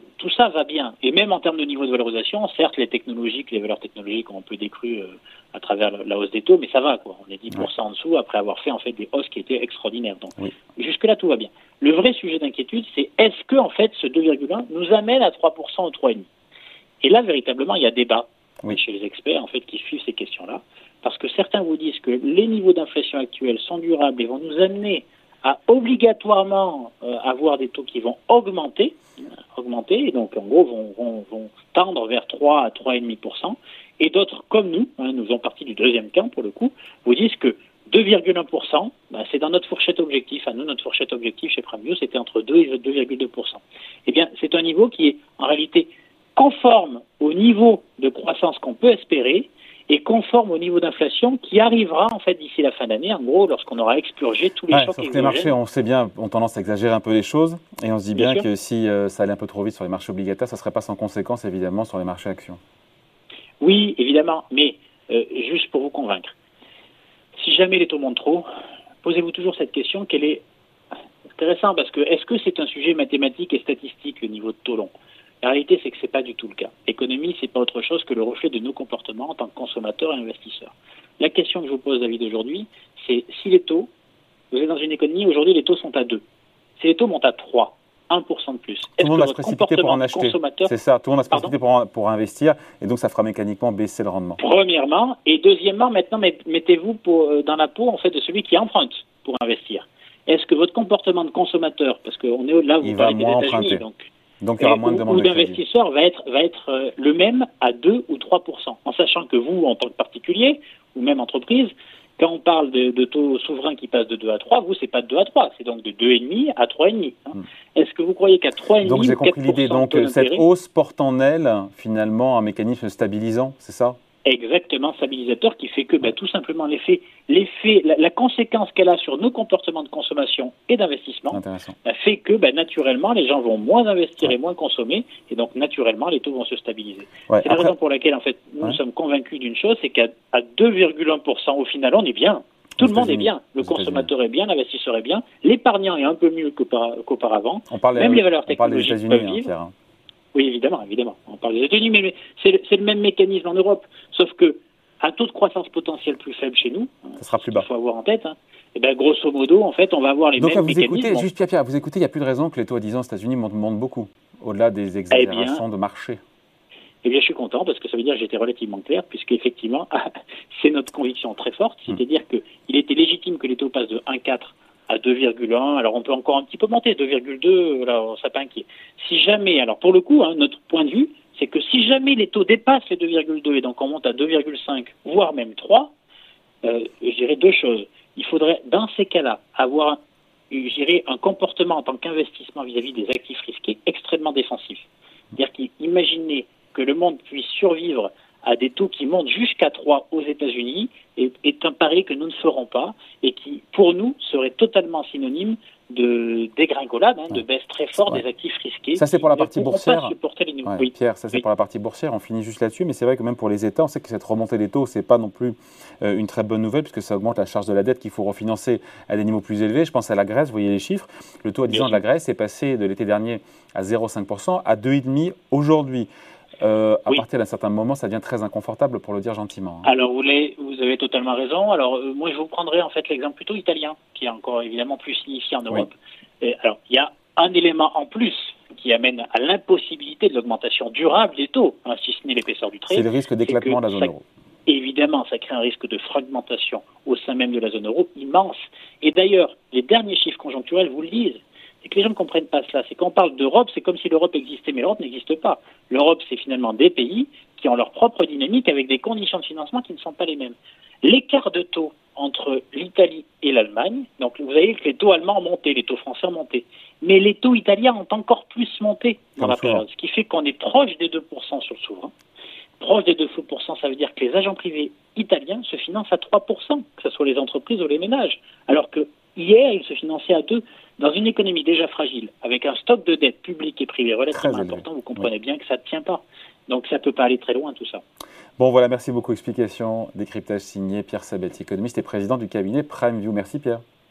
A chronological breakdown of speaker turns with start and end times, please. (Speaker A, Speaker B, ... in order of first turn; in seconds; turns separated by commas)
Speaker A: 0.2-16.3, Speaker A: 17.0-29.0, Speaker A: 29.5-55.5, Speaker B: 54.7-62.6, Speaker A: 58.1-58.5, Speaker A: 63.6-66.3, Speaker A: 67.4-68.4, Speaker A: 69.0-70.4, Speaker A: 71.3-74.9, Speaker A: 75.4-83.9, Speaker A: 84.5-86.2, Speaker A: 86.8-90.7, Speaker B: 89.0-94.4, Speaker A: 94.4-104.1, Speaker B: 102.8-103.8, Speaker B: 104.4-105.6, Speaker A: 104.6-120.5, Speaker B: 118.8-124.0, Speaker A: 124.2-149.5, Speaker B: 131.3-131.8, Speaker B: 137.3-137.7, Speaker B: 142.8-144.1, Speaker B: 147.7-149.7, Speaker A: 150.3-161.3, Speaker B: 157.2-157.7, Speaker B: 160.4-166.2, Speaker A: 165.1-165.6, Speaker A: 167.0-185.9, Speaker A: 186.6-190.0, Speaker A: 190.5-211.4, Speaker B: 209.0-210.1, Speaker B: 210.7-226.1, Speaker A: 221.7-222.0, Speaker B: 226.6-229.9, Speaker A: 229.8-244.1, Speaker B: 242.9-244.2, Speaker A: 244.7-272.1, Speaker B: 269.4-269.9, Speaker A: 272.8-288.0, Speaker B: 284.3-285.3, Speaker B: 288.6-293.8